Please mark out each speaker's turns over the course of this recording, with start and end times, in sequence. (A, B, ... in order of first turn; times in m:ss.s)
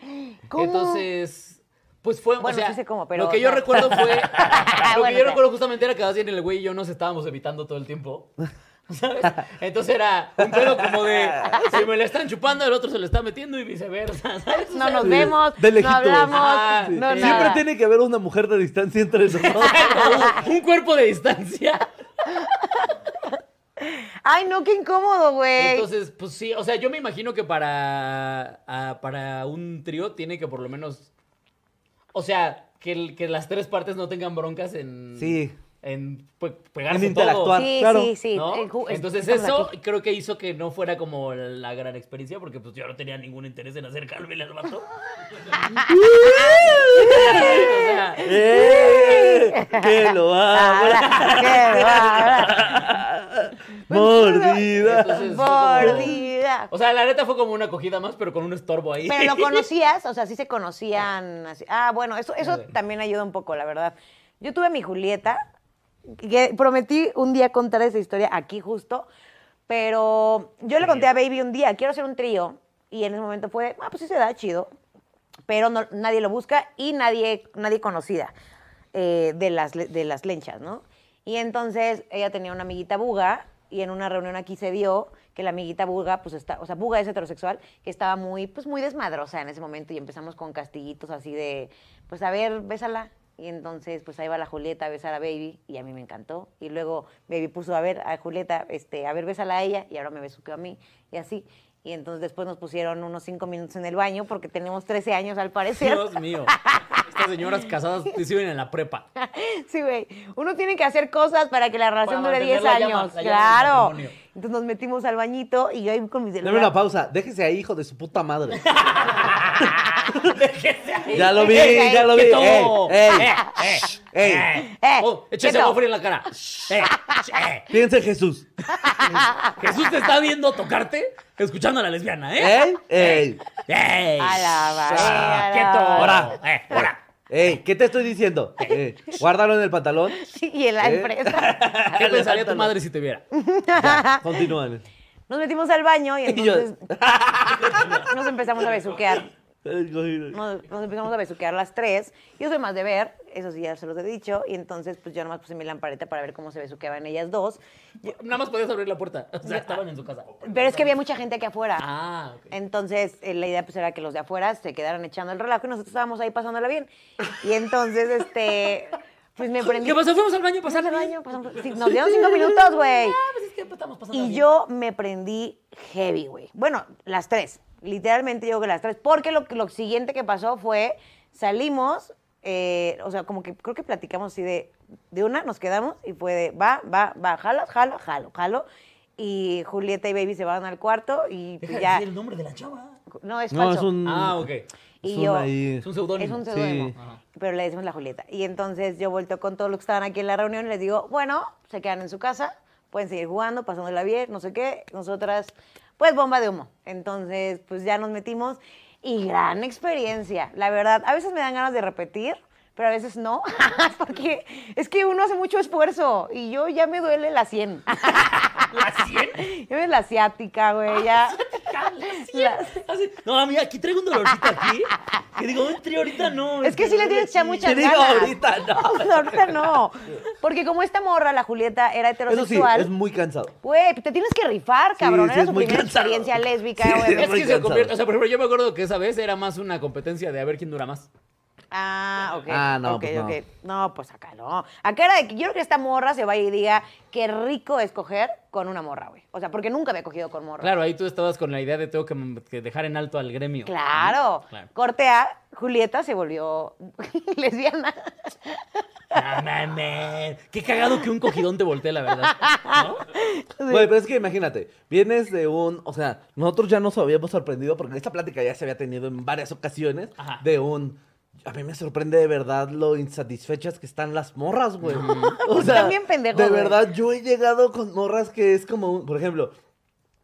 0:00.1-0:01.0 A
0:00.6-0:08.3 B
0:02.4-0:05.4 A
0:08.9-0:15.4 B
0:10.4-0:11.9 C
0:14.7-0:17.6 A
0:15.0-0:20.4 C
0:16.3-0:17.6 B
0:19.4-0:21.9 B
0:19.6-0:20.4 A
0:22.3-0:22.9 A
0:23.8-0:25.9 A
0:25.6-0:31.1 B
0:32.1-0:37.6 B
0:35.2-0:35.6 C
0:36.9-0:38.1 C
0:37.5-0:39.7 A
0:38.3-0:44.9 B
0:45.5-0:52.6 A
0:45.8-0:55.2 C
0:46.6-0:48.4 B
0:51.0-0:52.8 B
0:53.9-0:56.7 A
0:54.7-0:56.2 B
0:55.8-0:56.1 C
0:56.7-0:59.6 B
0:59.1-1:05.4 A
1:02.4-1:02.7 B
1:06.1-1:09.1 A
1:09.7-1:14.7 A
1:10.8-1:11.1 B
1:15.5-1:18.3 A
1:18.9-1:47.1 A
1:45.7-1:49.1 B
1:49.2-1:56.7 A
1:52.0-1:54.2 B
1:56.4-1:58.6 C
1:58.6-2:07.7 B
1:59.6-2:00.4 C
2:01.1-2:03.4 C
2:01.2-2:03.9 A
2:04.0-2:04.5 C
2:04.6-2:05.8 A
2:06.9-2:07.2 A
2:07.7-2:08.5 C
2:08.8-2:16.9 B
2:08.8-2:09.6 A
2:12.4-2:13.4 C
2:14.2-2:16.9 A
2:14.9-2:20.2 C
2:18.7-2:19.2 A
2:20.2-2:21.6 A
2:20.8-2:22.7 C
2:21.6-2:23.2 B
2:23.3-2:24.5 A
2:23.8-2:24.8 C
2:25.3-2:26.8 A
2:26.2-2:28.1 C
2:27.5-2:28.1 B
2:28.0-2:29.3 A
2:29.6-2:30.4 C
2:30.3-2:37.6 A
2:38.0-2:40.9 B
2:39.4-2:39.8 A
2:40.4-2:41.9 A
2:41.8-2:42.5 B
2:42.5-2:50.0 A
2:49.6-2:54.4 B
2:50.6-2:53.2 A
2:54.1-3:08.6 A
3:09.2-3:12.1 A
3:11.6-3:13.0 B
3:13.1-3:13.9 A
3:13.5-3:14.5 C
3:14.0-3:14.7 B
3:15.0-3:15.5 A
3:15.0-3:15.9 C
3:15.8-3:17.2 B
3:16.2-3:38.7 A
3:16.4-3:17.0 C
3:38.2-3:39.5 B
3:39.4-3:42.8 A
3:40.9-3:47.5 B
3:46.6-3:52.9 A
3:47.0-3:49.7 C
3:52.3-3:53.6 C
3:53.6-3:57.4 A
3:55.0-3:57.9 C
3:57.1-4:01.1 B
4:01.7-4:10.7 A
4:02.5-4:03.4 C
4:10.6-4:14.7 B
4:13.6-4:19.2 A
4:19.1-4:23.0 B
4:22.3-4:23.9 A
4:23.7-4:39.5 C
4:34.8-4:35.4 B
4:34.9-4:36.8 A